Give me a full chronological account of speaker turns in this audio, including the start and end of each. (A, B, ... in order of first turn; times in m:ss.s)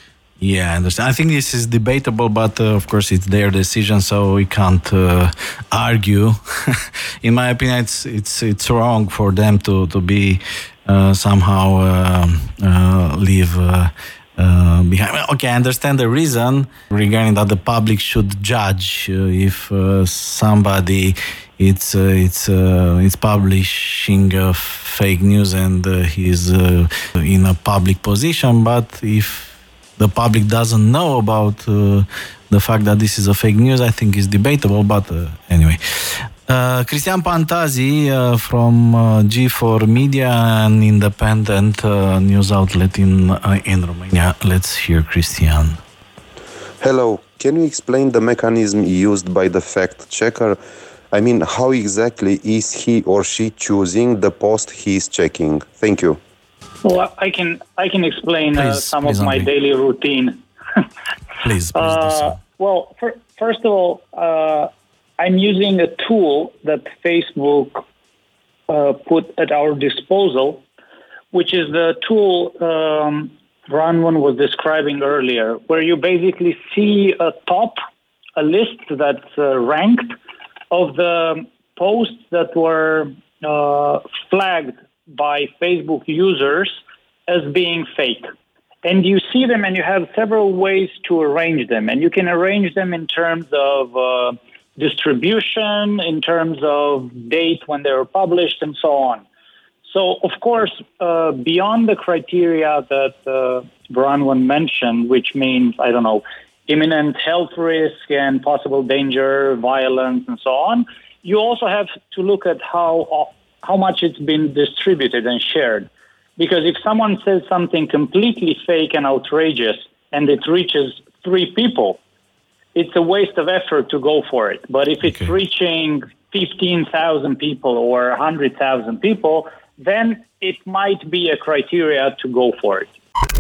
0:00.4-0:45.8 A
0:46.8-0:50.6 B
0:51.1-0:56.2 B
0:56.8-1:00.8 C
0:58.5-0:59.5 A
1:01.4-1:02.4 A
1:01.7-1:07.8 C
1:08.7-1:10.6 C
1:11.3-1:17.8 C
1:18.4-1:20.2 C
1:20.7-1:26.7 C
1:27.3-1:28.3 C
1:28.8-1:39.2 C
1:39.9-2:02.0 C
2:02.8-2:12.9 C
2:05.0-2:05.3 A